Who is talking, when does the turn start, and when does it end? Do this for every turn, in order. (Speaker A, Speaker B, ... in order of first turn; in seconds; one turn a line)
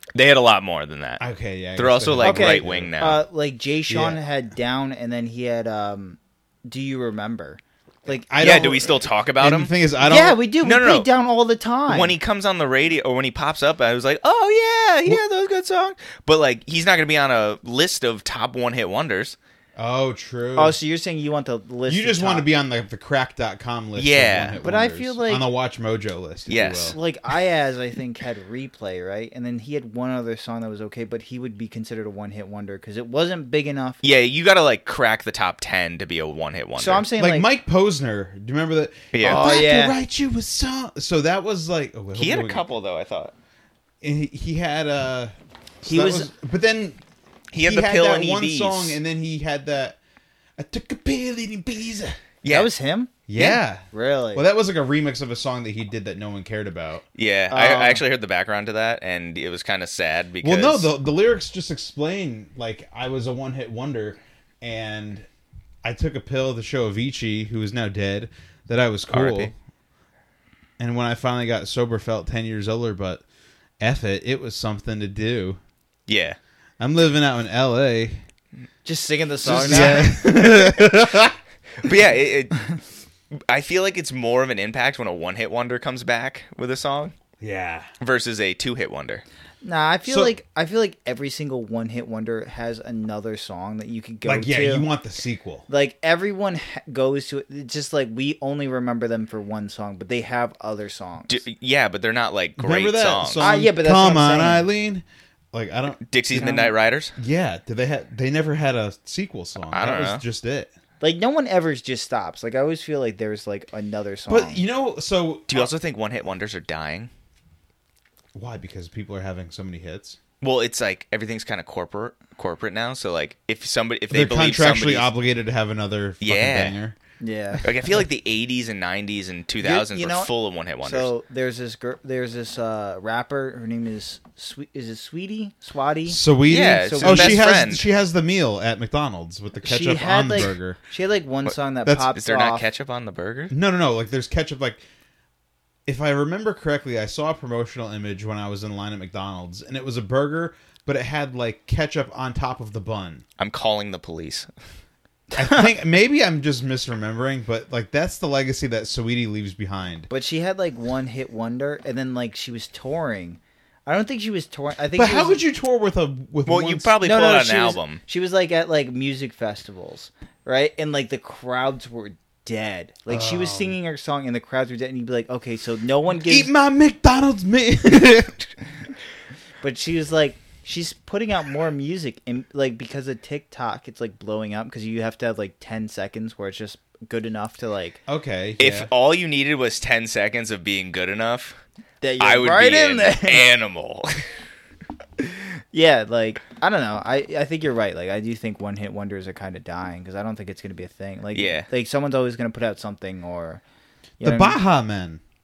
Speaker A: 0.1-1.2
Speaker B: 1.2-3.0
Speaker A: 1.8-3.2
Speaker C: 2.2-8.3
Speaker B: 3.9-4.2
Speaker B: 8.2-10.4
Speaker A: 8.4-9.7
Speaker C: 10.0-12.1
Speaker A: 10.6-11.1
Speaker A: 11.9-19.4
Speaker B: 19.8-20.8
Speaker C: 20.6-22.4
Speaker B: 21.9-26.9
Speaker A: 23.9-24.6
Speaker C: 24.6-25.5
Speaker A: 26.5-27.0
Speaker C: 26.8-34.0
Speaker A: 34.0-37.1
Speaker C: 36.8-37.5
Speaker B: 37.2-42.6
Speaker A: 39.1-39.4
Speaker C: 39.2-40.0
Speaker A: 42.1-43.3
Speaker B: 44.0-47.0
Speaker C: 45.9-46.3
Speaker A: 47.5-49.0
Speaker B: 47.6-50.0
Speaker B: 50.6-52.2
Speaker A: 52.4-52.7
Speaker C: 52.5-54.4
Speaker B: 53.3-57.0
Speaker A: 57.1-60.9
Speaker C: 57.5-58.0
Speaker B: 60.4-65.3
Speaker B: 65.8-69.5
Speaker A: 69.1-69.5
Speaker B: 70.8-73.2
Speaker B: 73.8-75.6
Speaker A: 76.1-76.4
Speaker B: 76.8-78.2
Speaker C: 78.8-80.5
Speaker B: 79.4-81.4
Speaker A: 79.7-80.0
Speaker A: 81.8-82.7
Speaker A: 83.3-87.1
Speaker B: 87.4-87.9
Speaker A: 88.0-89.2
Speaker C: 89.6-94.9
Speaker B: 90.0-90.3
Speaker B: 94.2-95.7
Speaker C: 95.7-101.4
Speaker A: 101.3-103.5
Speaker B: 102.6-106.6
Speaker C: 103.4-104.7
Speaker A: 106.1-107.1
Speaker C: 106.4-106.7
Speaker B: 107.2-110.7
Speaker A: 109.7-110.2
Speaker C: 111.0-114.6
Speaker B: 114.3-115.7
Speaker A: 115.5-117.1
Speaker B: 118.3-120.2
Speaker A: 120.4-125.1
Speaker B: 124.1-127.0
Speaker A: 126.2-126.8
Speaker C: 127.2-127.7
Speaker A: 127.6-131.1
Speaker C: 129.6-130.3
Speaker C: 130.8-137.5
Speaker B: 136.1-140.8
Speaker A: 136.5-137.8
Speaker C: 139.6-142.7
Speaker A: 142.0-143.5
Speaker B: 143.5-144.8
Speaker B: 145.8-153.2
Speaker A: 153.4-154.5
Speaker B: 155.3-160.1
Speaker C: 160.1-165.4
Speaker B: 164.9-167.0
Speaker A: 166.4-168.0
Speaker C: 167.0-176.5
Speaker B: 173.1-173.7
Speaker B: 176.2-178.5
Speaker C: 179.6-188.0
Speaker B: 188.1-188.9
Speaker A: 188.6-191.6
Speaker C: 192.0-193.4
Speaker A: 192.2-194.3
Speaker C: 195.7-203.6
Speaker A: 201.3-201.7
Speaker C: 204.2-204.6
Speaker B: 204.2-205.2